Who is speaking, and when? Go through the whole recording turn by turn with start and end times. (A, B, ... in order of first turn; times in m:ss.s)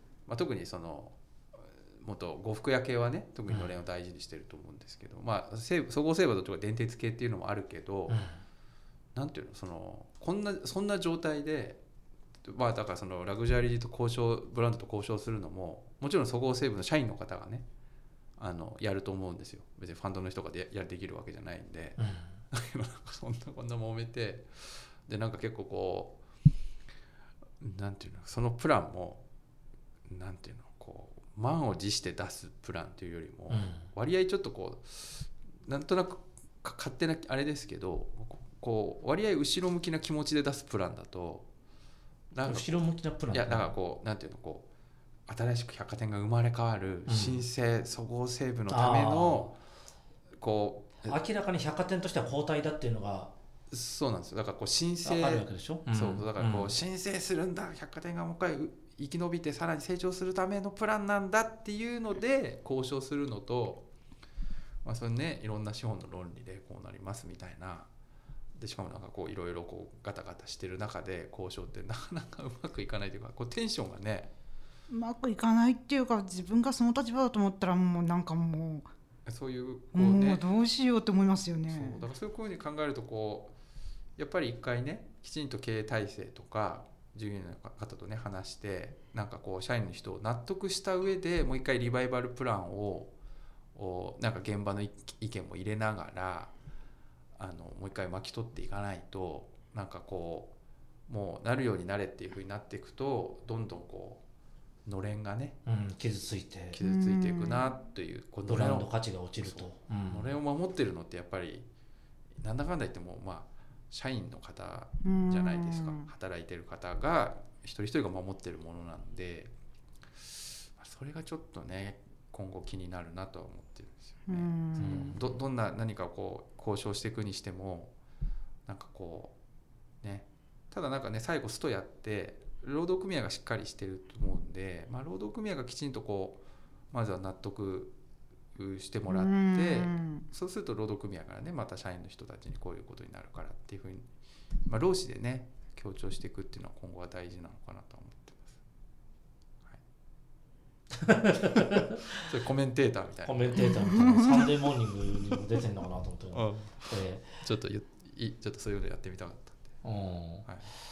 0:00.3-0:08.2 A
0:08.1-0:08.4 B
0:09.1-0:11.8 A
0:12.4-0:17.6 A
0:18.4-0:26.2 A
0:22.0-0:22.3 B
0:27.6-0:29.2 A
0:30.1-0:41.5 A
0:33.5-0:33.8 B
0:42.3-0:42.7 A
0:42.4-0:43.8 B
0:43.3-0:44.7 A
0:45.3-0:49.6 A
0:47.1-0:47.4 B
0:48.7-0:49.5 B
0:50.4-0:51.2 A
0:51.0-0:53.3 B
0:53.7-1:03.9 A
0:55.0-0:56.8 B
1:04.8-1:07.9 A
1:08.6-1:14.3 A
1:14.9-1:18.9 C
1:19.3-1:20.4 A
1:19.9-1:22.0 C
1:21.7-1:23.5 A
1:24.2-1:33.1 A
1:33.8-1:36.5 A
1:37.4-1:40.5 A
1:41.1-1:44.2 A
1:44.8-1:45.6 A
1:45.6-1:46.8 B
1:46.7-1:51.7 A
1:46.8-1:47.8 C
1:48.5-1:50.3 B
1:52.4-1:59.5 A
1:55.0-1:56.1 C
2:00.8-2:07.9 A
2:04.3-2:05.2 C
2:04.8-2:05.3 B
2:08.7-2:09.3 A
2:10.0-2:18.0 A
2:18.6-2:24.1 A
2:19.1-2:20.3 C
2:24.7-2:28.6 A
2:30.9-2:32.2 B
2:32.1-2:34.3 A
2:33.2-2:37.4 B
2:33.6-2:34.5 C
2:36.3-2:39.7 A
2:39.8-2:40.5 B